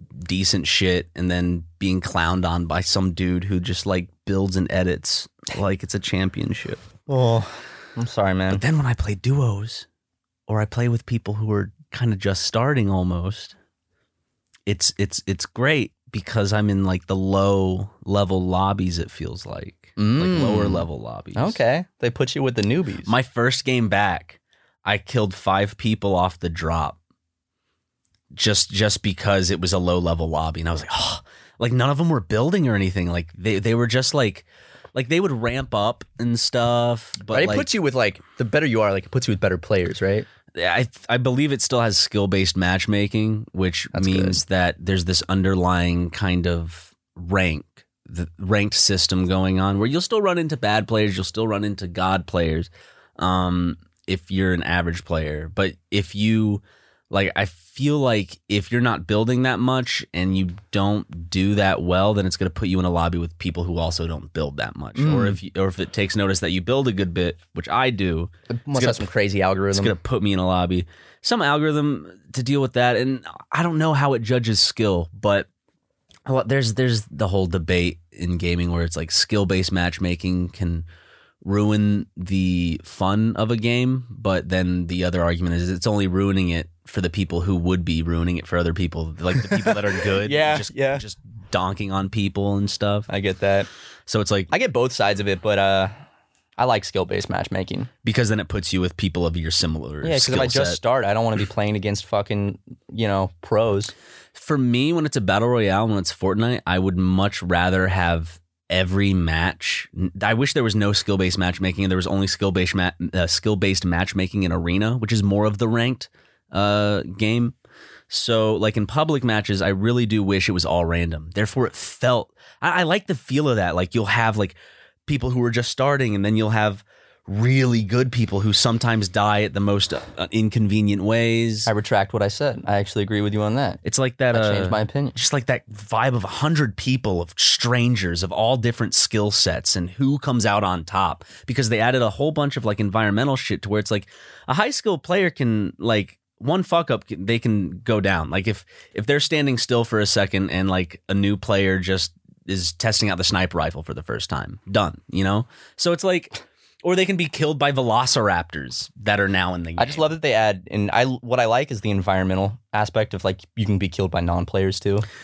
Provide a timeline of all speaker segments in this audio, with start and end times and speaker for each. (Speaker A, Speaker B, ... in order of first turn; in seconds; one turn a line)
Speaker A: 0.2-6.8
Speaker B: 7.1-8.6
Speaker A: 8.5-9.8
Speaker A: 10.5-13.5
Speaker A: 14.7-21.6
Speaker B: 20.0-20.8
Speaker B: 21.4-23.1
Speaker A: 23.1-27.0
Speaker A: 28.3-37.7
Speaker B: 37.3-40.3
Speaker A: 40.5-69.1
Speaker B: 43.9-44.4
Speaker B: 65.0-65.4
Speaker B: 68.5-69.9
Speaker A: 69.7-75.5
Speaker A: 76.2-80.8
Speaker A: 81.4-93.1
Speaker B: 89.4-91.0
Speaker B: 93.1-93.7
Speaker A: 94.1-94.5
Speaker B: 94.5-95.9
Speaker B: 96.6-97.9
Speaker A: 98.0-100.8
Speaker B: 100.0-103.9
Speaker A: 104.3-117.5
Speaker A: 118.1-131.7
Speaker B: 131.7-133.8
Speaker A: 133.8-160.1
Speaker B: 134.3-135.2
Speaker B: 159.8-165.1